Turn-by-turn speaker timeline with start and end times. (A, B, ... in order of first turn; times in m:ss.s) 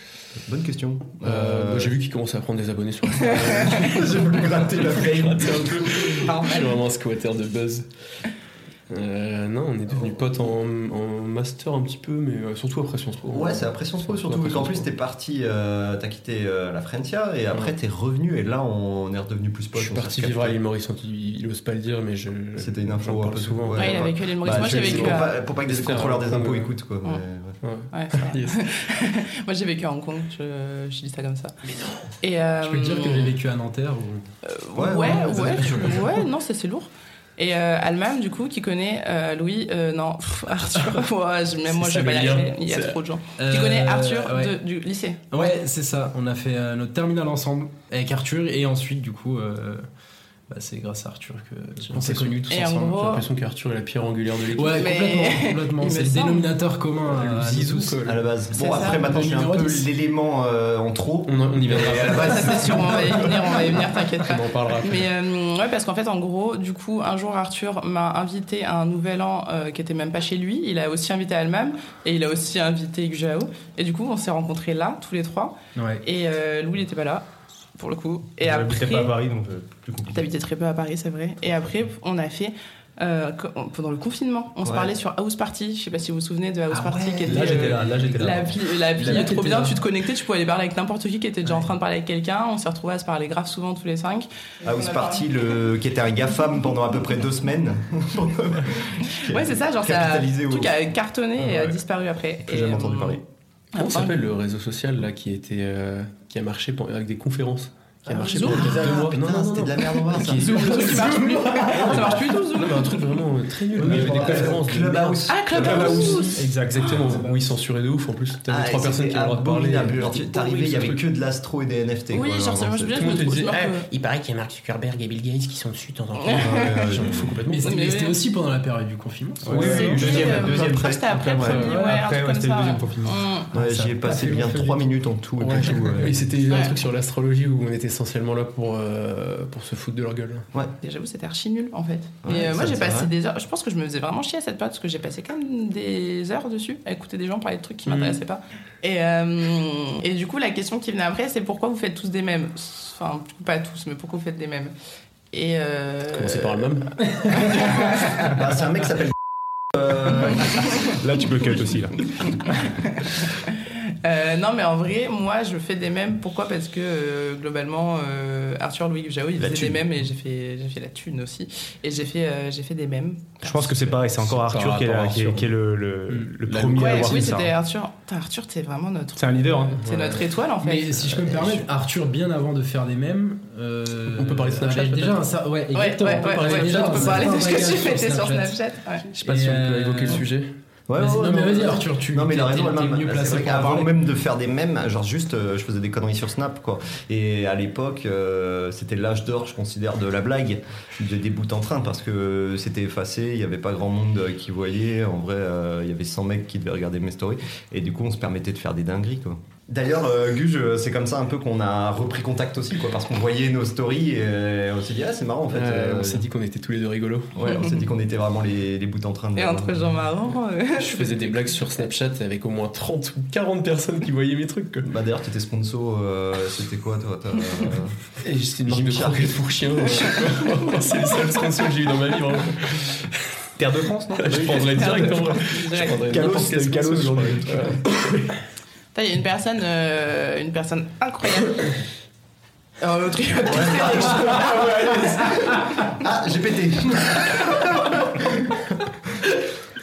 0:00.4-0:02.0 A
0:01.2-0:07.8 B
0:03.5-0:03.8 C
0:03.8-0:06.3 A
0:06.2-0:06.8 C
0:08.9-0:14.9 B
0:13.3-0:20.6 A
0:19.7-0:26.7 B
0:22.6-0:27.6 A
0:23.8-0:25.3 C
0:27.6-0:28.6 B
0:27.9-0:31.6 C
0:31.7-0:32.0 B
0:32.2-0:33.3 C
0:32.6-0:34.2 D
0:34.4-0:45.5 C
0:34.7-0:36.1 A
0:41.7-0:43.0 B
0:43.4-0:44.5 D
0:45.3-0:49.8 D
0:50.5-0:52.7 D
0:51.9-0:55.0 B
0:52.5-0:53.2 C
0:54.6-0:58.0 D
0:54.8-0:56.5 C
0:57.1-0:58.2 B
0:58.0-1:03.1 A
0:58.5-0:59.2 C
0:58.8-0:59.9 D
1:01.3-1:05.1 B
1:02.0-1:17.2 C
1:15.7-1:16.0 D
1:17.8-1:19.1 C
1:18.4-1:20.3 E
1:20.1-1:35.6 C
1:24.6-1:24.9 A
1:26.7-1:29.8 D
1:27.2-1:29.5 B
1:34.6-1:40.8 A
1:39.2-1:43.2 C
1:42.4-1:43.2 A
1:43.7-1:44.2 C
1:43.8-1:55.2 B
1:48.1-1:50.8 A
1:48.2-1:49.1 C
1:50.3-1:53.2 C
1:51.3-1:51.7 D
1:53.8-1:54.4 E
1:53.8-1:56.3 A
1:53.8-1:54.5 D
1:55.3-1:56.4 C
1:55.6-1:57.2 E
1:55.7-2:01.0 B
1:56.4-1:57.4 D
1:58.5-2:03.2 A
2:02.1-2:03.9 C
2:02.9-2:07.8 B
2:06.2-2:07.0 C
2:06.3-2:07.4 A
2:07.5-2:10.2 D
2:07.6-2:08.2 C
2:09.4-2:13.2 E
2:09.6-2:13.5 C
2:09.6-2:11.6 A
2:11.5-2:12.0 D
2:13.5-2:16.2 A
2:13.5-2:16.0 D
2:16.0-2:20.4 B
2:16.5-2:16.8 C
2:20.8-2:34.7 C
2:22.2-2:23.1 A
2:27.8-2:28.2 B
2:35.3-2:36.7 C
2:36.1-2:37.7 B
2:37.2-2:38.3 C
2:38.3-2:39.1 A
2:39.7-2:40.6 A
2:40.8-2:42.0 E
2:42.8-2:53.5 C
2:49.4-2:49.8 A
2:53.4-2:57.5 E
2:53.8-2:55.5 B
2:56.1-2:57.3 B
2:56.8-3:01.2 C
2:59.2-2:59.9 E
2:59.8-3:00.2 A
3:00.6-3:08.6 D
3:04.1-3:05.3 B
3:05.7-3:09.0 C
3:06.1-3:07.5 B
3:09.1-3:10.5 B
3:09.2-3:10.2 D
3:10.9-3:36.3 A
3:11.0-3:14.0 D
3:35.5-3:37.3 B
3:37.3-3:39.9 A
3:37.4-3:37.7 C
3:39.4-3:41.9 C
3:40.8-3:44.9 B
3:44.8-3:48.0 A
3:48.2-3:53.3 B
3:48.6-3:49.5 A
3:53.6-3:55.4 E
3:54.2-3:58.1 B
3:54.7-3:56.0 C
3:55.9-3:57.8 E
3:58.9-4:01.7 C
4:02.8-4:05.8 C
4:03.5-4:08.8 A